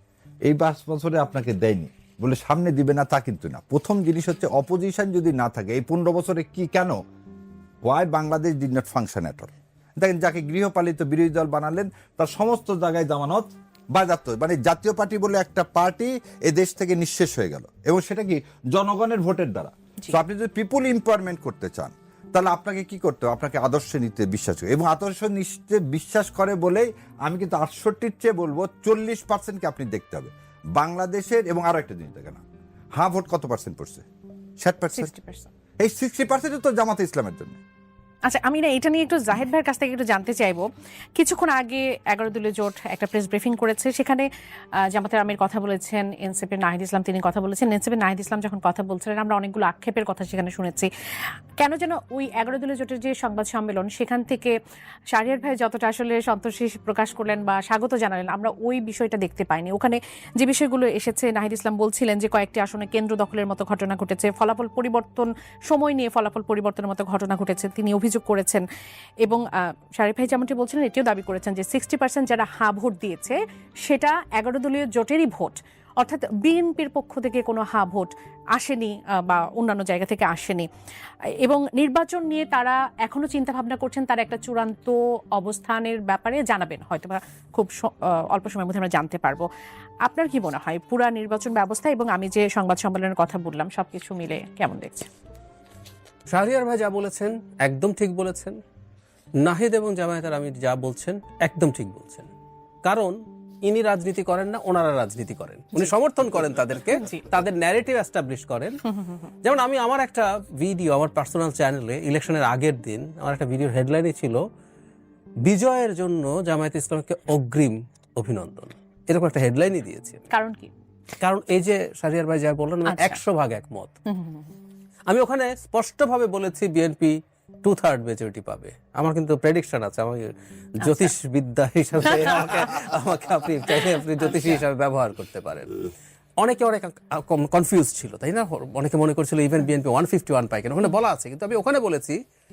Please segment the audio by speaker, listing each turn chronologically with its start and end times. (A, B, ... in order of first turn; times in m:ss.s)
0:00.5-0:07.0 A
0:07.8-0:32.4 A
0:33.0-0:34.0 A
0:34.6-0:35.1 A
0:34.9-0:35.5 B
0:35.8-0:37.6 A
0:38.3-0:44.3 B
0:44.9-0:50.9 B
0:51.6-0:54.5 B
0:55.1-1:08.6 B
1:09.2-1:20.7 B
1:21.4-1:29.5 B
1:30.0-1:35.1 B
1:36.3-1:38.6 C
1:39.4-1:42.3 C
1:42.8-1:48.8 C
1:47.0-1:47.3 B
1:49.4-1:54.4 C
1:55.4-2:00.2 C
2:00.3-2:00.7 B
2:01.2-2:04.0 C
2:02.9-2:03.2 B
2:04.1-2:04.5 B
2:05.1-2:15.8 C
2:10.8-2:11.1 B
2:14.2-2:14.6 B
2:16.4-2:22.2 C